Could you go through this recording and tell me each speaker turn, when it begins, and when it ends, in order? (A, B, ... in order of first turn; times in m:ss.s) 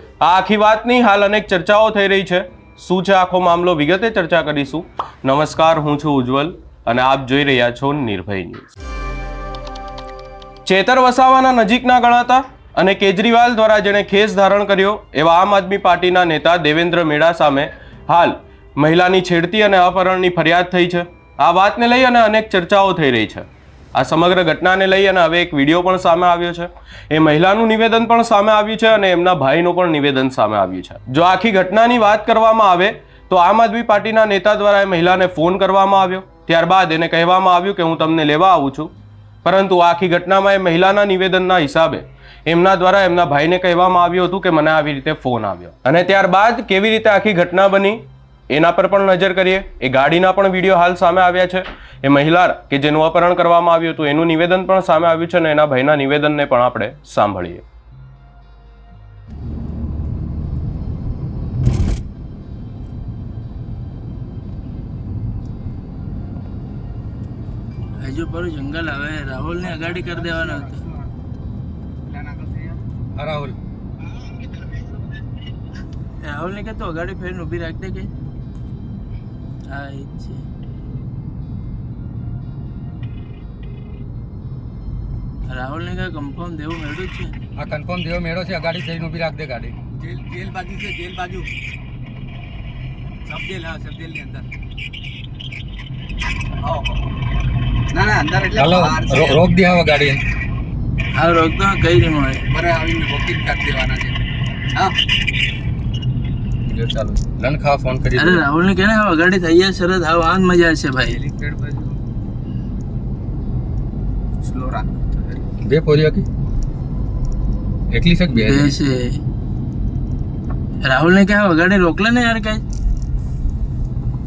0:00.2-0:08.7 A
0:10.6-0:38.9 A
0:39.4-0:57.6 A
1:08.0-1:10.8 B
1:09.7-1:11.1 C
1:12.0-1:12.8 C
1:13.1-1:13.6 D
1:16.2-1:18.1 B
1:19.7-1:20.4 B
1:25.5-1:27.3 B
1:27.6-1:29.8 D
1:30.0-1:31.5 C
1:33.2-1:34.4 C
1:36.6-1:37.0 C
1:37.9-1:39.5 C
1:38.6-1:40.2 D
1:41.1-1:42.4 B
1:42.5-1:44.2 C
1:46.6-1:48.4 D
1:48.2-1:51.2 B
1:51.0-1:52.0 C
1:54.4-1:55.4 C
1:55.6-1:56.2 D
1:57.9-1:58.7 D
1:58.3-1:59.2 B
2:00.8-2:02.6 B